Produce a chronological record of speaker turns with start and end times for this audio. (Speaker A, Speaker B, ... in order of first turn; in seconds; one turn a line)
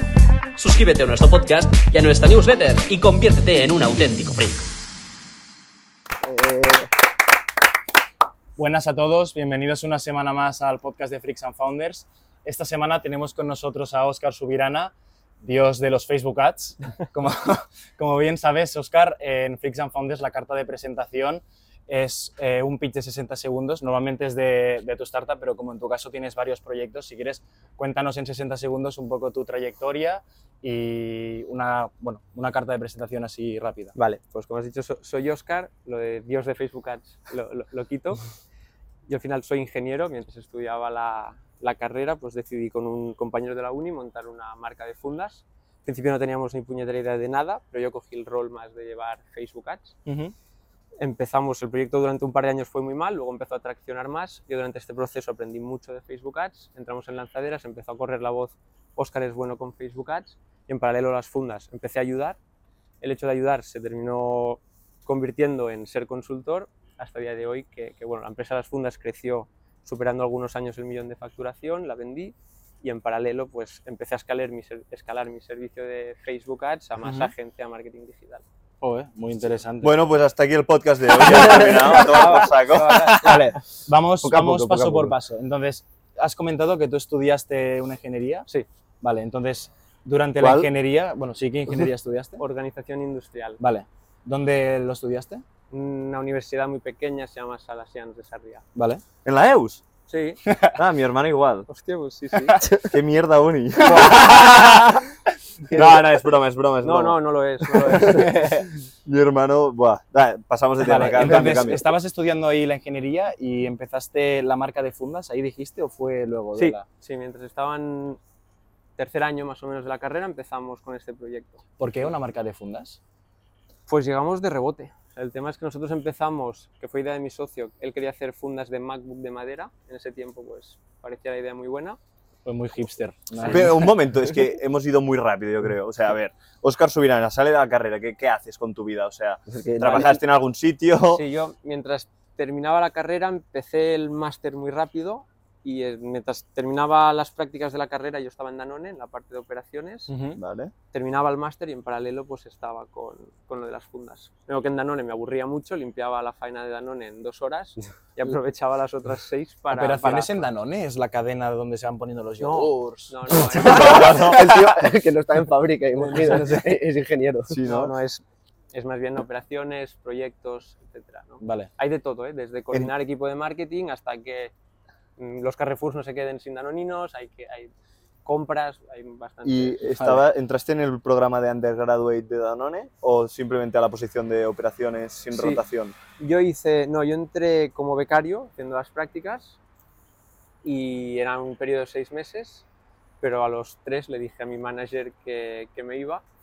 Speaker A: 0.6-4.7
Speaker B: 6.2-6.9
Speaker C: 8.6-33.9
Speaker D: 33.9-38.2
Speaker D: 39.1-50.0
Speaker C: 50.0-50.3
Speaker D: 51.0-62.4
Speaker D: 63.0-78.4
Speaker C: 77.0-77.3
Speaker C: 78.8-79.9
Speaker E: 79.8-83.5
Speaker C: 81.4-82.2
Speaker D: 81.5-83.5
Speaker C: 82.8-88.5
Speaker B: 84.2-85.2
Speaker C: 89.0-92.4
Speaker B: 90.4-90.7
Speaker D: 92.4-93.6
Speaker C: 93.6-95.4
Speaker D: 95.7-98.6
Speaker C: 98.7-99.0
Speaker E: 99.2-99.8
Speaker D: 100.1-100.4
Speaker C: 100.5-100.8
Speaker E: 100.7-101.7
Speaker D: 101.7-102.6
Speaker E: 102.7-105.0
Speaker D: 104.1-104.8
Speaker D: 105.7-106.0
Speaker E: 105.7-107.2
Speaker D: 106.8-108.5
Speaker E: 107.9-111.9
Speaker C: 107.9-108.6
Speaker C: 110.8-116.8
Speaker D: 116.5-118.2
Speaker D: 119.0-121.6
Speaker C: 121.8-123.0
Speaker D: 123.9-132.0
Speaker C: 132.4-133.9
Speaker E: 133.4-141.2
Speaker B: 139.5-140.2
Speaker D: 139.8-140.1
Speaker D: 141.1-150.1
Speaker C: 150.1-150.4
Speaker E: 150.4-150.7
Speaker D: 150.9-160.5
Speaker C: 159.7-163.1
Speaker D: 162.4-164.2
Speaker B: 163.4-167.6
Speaker E: 163.4-164.8
Speaker D: 166.0-166.4
Speaker C: 166.1-166.8
Speaker E: 167.5-167.9
Speaker D: 167.6-174.5
Speaker C: 171.4-171.7
Speaker D: 175.2-177.7
Speaker D: 178.2-179.8
Speaker E: 179.4-185.9
Speaker C: 179.9-180.2
Speaker D: 185.3-185.6
Speaker D: 186.2-189.6
Speaker D: 190.6-192.6
Speaker D: 193.2-196.2